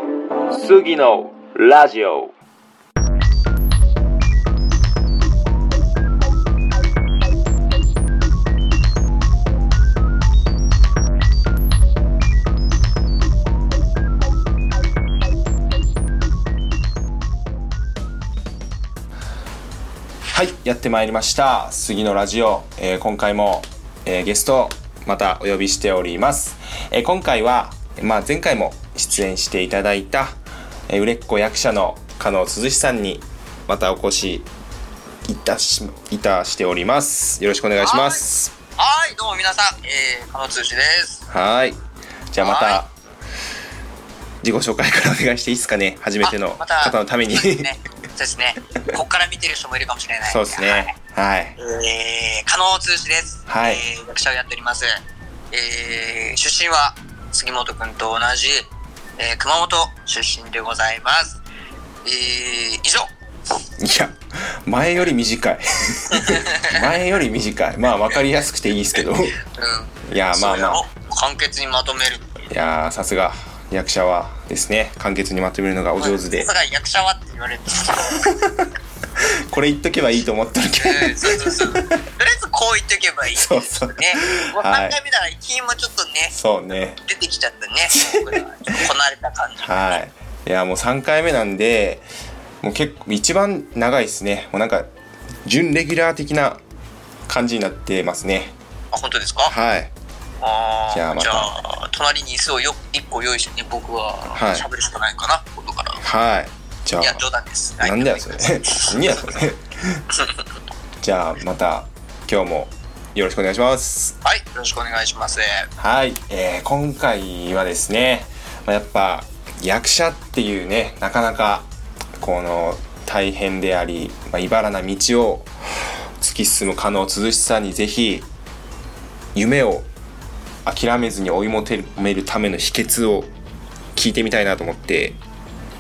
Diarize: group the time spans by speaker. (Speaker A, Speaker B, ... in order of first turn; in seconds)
Speaker A: 0.5-2.3, 20.3-34.5, 35.3-38.5, 41.3-41.8, 42.3-42.9, 44.4-47.7, 50.2-51.5, 53.5-53.8, 63.8-69.4, 70.1-70.8, 72.5-76.5, 78.1-81.9, 83.3-85.0, 86.3-87.0, 87.9-88.8, 89.6-92.1, 92.6-94.9, 95.4-96.6, 97.3-98.5, 99.4-99.9, 100.9-101.5, 104.3-104.7, 106.0-107.2, 107.8-110.0, 111.0-114.2, 115.8-128.3, 129.3-129.9, 130.7-133.3, 133.9-135.2
Speaker B: 37.8-38.2, 38.8-41.2, 42.4-42.8, 46.2-50.9, 51.6-55.0, 55.5-61.4, 62.0-63.1, 66.1-66.8, 69.5-72.4, 76.0-78.4, 80.8-86.3, 87.0-90.0, 98.9-99.5, 100.4-106.0, 107.0-109.4, 110.1-110.4, 114.2-115.7